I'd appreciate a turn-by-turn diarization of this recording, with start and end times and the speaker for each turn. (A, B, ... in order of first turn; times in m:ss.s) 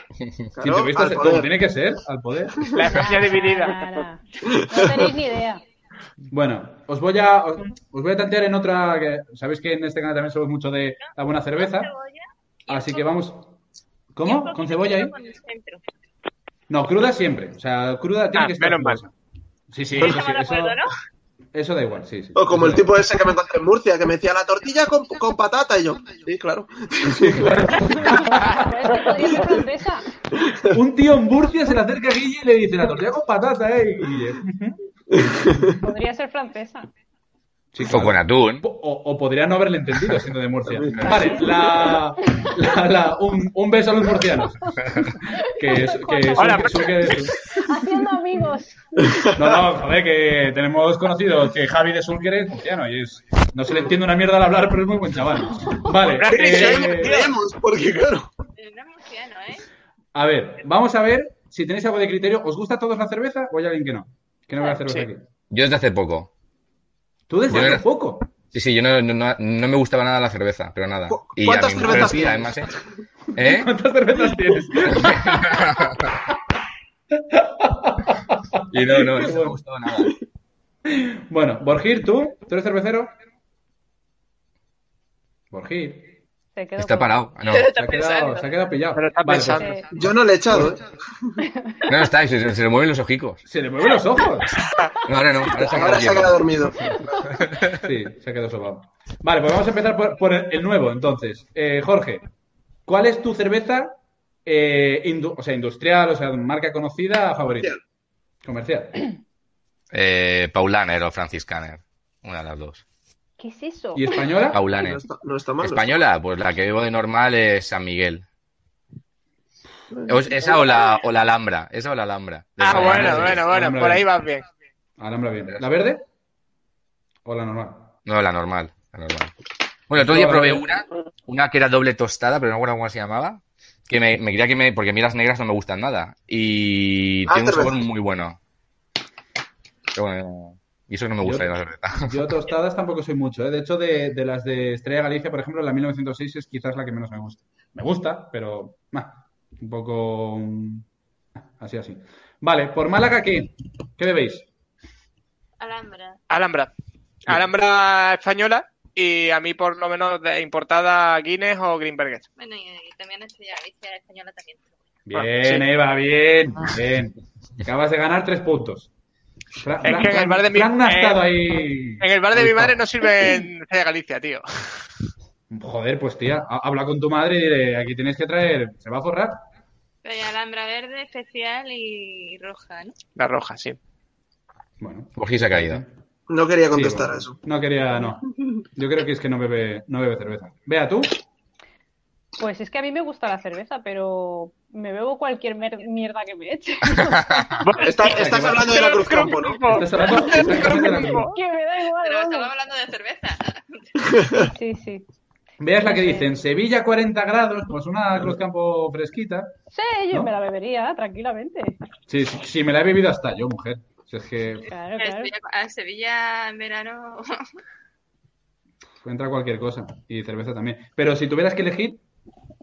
0:00.2-0:00.5 A
0:00.6-0:01.5 B
0:00.6-0:02.8 C
0:02.7-0:03.8 D
0:02.9-0:05.6 E
0:04.5-0:05.1 B
0:06.3-0:11.9 C
0:11.0-0:13.1 F
0:12.7-0:13.5 C
0:14.1-0:15.1 C
0:14.2-0:15.8 F
0:16.7-0:19.1 C
0:18.3-0:19.0 D
0:19.7-0:20.8 C
0:20.0-0:20.9 F
0:21.5-0:22.9 C
0:22.4-0:28.0 B
0:27.2-0:28.7 C
0:28.0-0:30.0 E
0:30.7-0:34.8 C
0:35.1-0:35.7 B
0:35.8-0:36.9 E
0:37.7-0:44.8 C
0:37.8-0:38.6 A
0:40.7-0:41.2 B
0:41.0-0:42.5 E
0:44.8-0:48.8 E
0:45.4-0:47.4 C
0:46.4-0:47.2 D
0:49.0-0:49.6 B
0:49.3-0:57.2 C
0:56.1-0:57.3 D
0:56.3-0:58.3 B
0:58.6-0:59.6 F
1:00.1-1:05.3 C
1:05.5-1:06.3 A
1:07.3-1:08.3 C
1:07.5-1:07.8 A
1:08.5-1:12.7 A
1:11.1-1:12.8 B
1:11.9-1:12.3 C
1:13.4-1:13.7 A
1:13.4-1:16.2 C
1:15.0-1:16.1 A
1:17.2-1:19.6 C
1:18.7-1:20.1 A
1:20.9-1:23.1 C
1:25.5-1:26.1 C
1:26.5-1:27.3 E
1:26.8-1:27.7 A
1:27.5-1:28.5 F
1:27.6-1:30.7 C
1:28.9-1:29.7 D
1:29.6-1:29.9 E
1:29.9-1:31.3 B
1:31.4-1:31.9 E
1:31.9-1:33.4 A
1:33.4-1:34.6 C
1:35.0-1:36.4 A
1:35.6-1:37.2 B
1:35.9-1:36.3 C
1:36.8-1:37.2 E
1:37.3-1:37.8 A
1:37.7-1:42.2 C
1:42.8-1:47.8 C
1:48.4-1:49.0 C
1:49.9-1:52.8 A
1:53.4-1:54.4 E
1:53.9-1:54.6 C
1:54.5-1:55.0 A
1:54.7-1:55.9 B
1:55.6-1:58.2 A
1:59.9-2:00.6 B
2:00.1-2:03.4 A
2:02.6-2:04.4 D
2:02.7-2:04.0 C
2:05.0-2:06.0 C
2:07.2-2:07.9 C
2:08.0-2:09.3 A
2:09.9-2:18.4 A
2:10.0-2:10.7 C
2:17.3-2:17.8 B
2:19.9-2:22.1 A
2:21.2-2:30.8 C
2:31.6-2:34.4 C
2:35.6-2:36.2 F
2:36.3-2:36.7 D
2:37.2-2:42.2 D
2:42.4-2:44.7 F
2:45.1-2:48.9 C
2:45.2-2:45.6 D
2:49.6-2:52.8 C
2:49.8-2:51.2 D
2:52.0-2:54.9 D
2:55.5-2:59.4 C
3:00.0-3:03.0 F
3:03.2-3:03.8 D
3:04.8-3:05.9 C
3:05.2-3:05.8 A
3:06.3-3:07.4 B
3:06.7-3:11.2 C
3:12.4-3:17.6 E
3:17.6-3:21.3 D
3:17.8-3:20.5 B
3:18.1-3:18.9 C
3:19.7-3:21.3 C
3:20.2-3:22.5 E
3:22.0-3:24.0 F
3:24.4-3:25.0 E
3:25.6-3:29.5 C
3:25.8-3:26.3 E
3:29.7-3:31.8 E
3:32.1-3:34.7 C
3:34.7-3:35.3 E
3:35.0-3:37.5 F
3:39.0-3:42.0 C